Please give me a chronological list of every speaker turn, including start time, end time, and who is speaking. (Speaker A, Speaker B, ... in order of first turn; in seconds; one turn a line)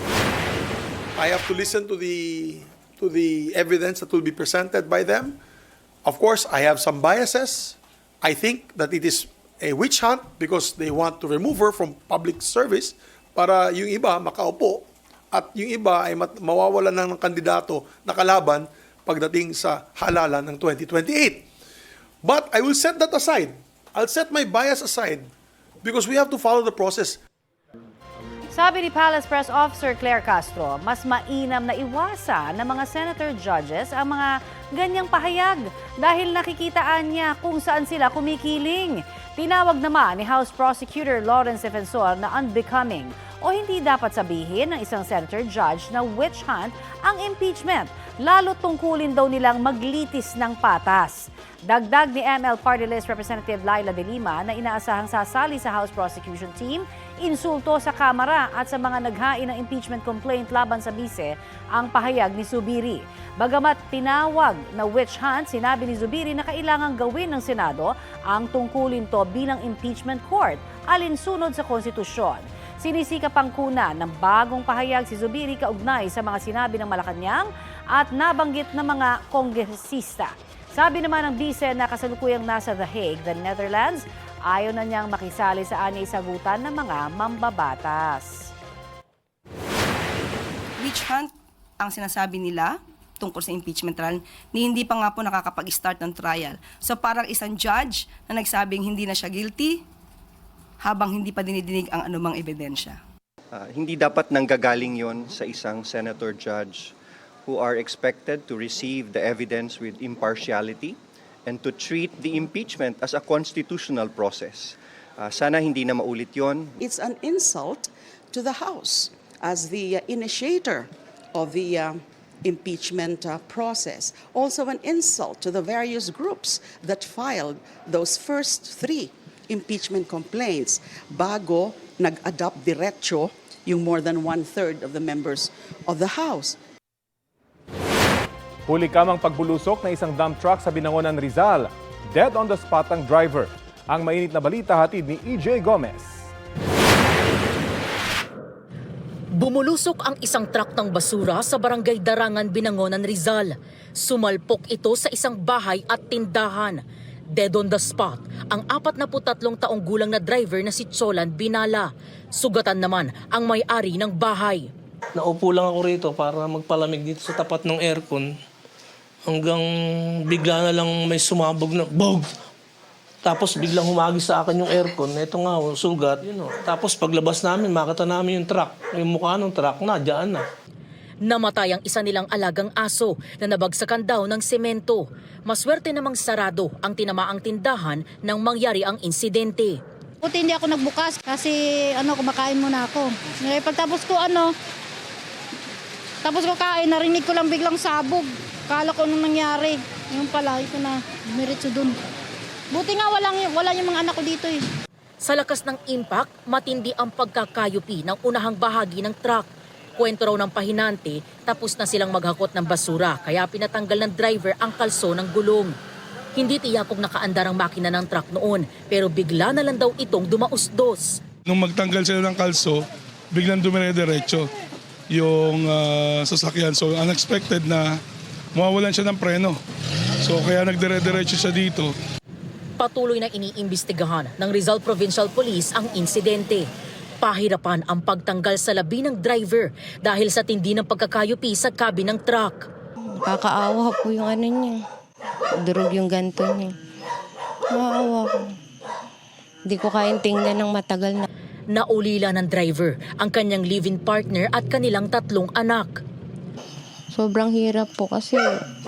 Speaker A: 1.1-5.4
Speaker A: 6.0-21.5
Speaker A: 22.2-25.3
Speaker A: 25.8-27.2
Speaker B: 28.5-88.5
Speaker C: 90.8-99.8
Speaker C: 100.8-103.0
Speaker D: 103.5-106.9
Speaker D: 107.5-116.8
Speaker E: 116.8-136.6
Speaker F: 138.7-146.3
Speaker G: 149.3-156.8
Speaker G: 157.3-164.7
Speaker H: 165.2-168.3
Speaker H: 169.3-169.7
Speaker H: 170.2-172.3
Speaker H: 173.2-180.4
Speaker G: 181.2-189.8
Speaker I: 190.2-194.5
Speaker I: 196.2-202.0
Speaker I: 202.7-204.6
Speaker G: 205.2-215.8
Speaker G: 216.3-221.2
Speaker J: 221.5-224.5
Speaker J: 225.1-228.0
Speaker J: 228.6-229.6
Speaker J: 230.2-231.9
Speaker G: 232.8-236.7
Speaker G: 237.2-242.7
Speaker K: 243.2-244.8
Speaker K: 245.6-246.8
Speaker K: 247.7-248.6
Speaker K: 249.7-251.3
Speaker G: 251.7-256.0
Speaker K: 257.1-258.6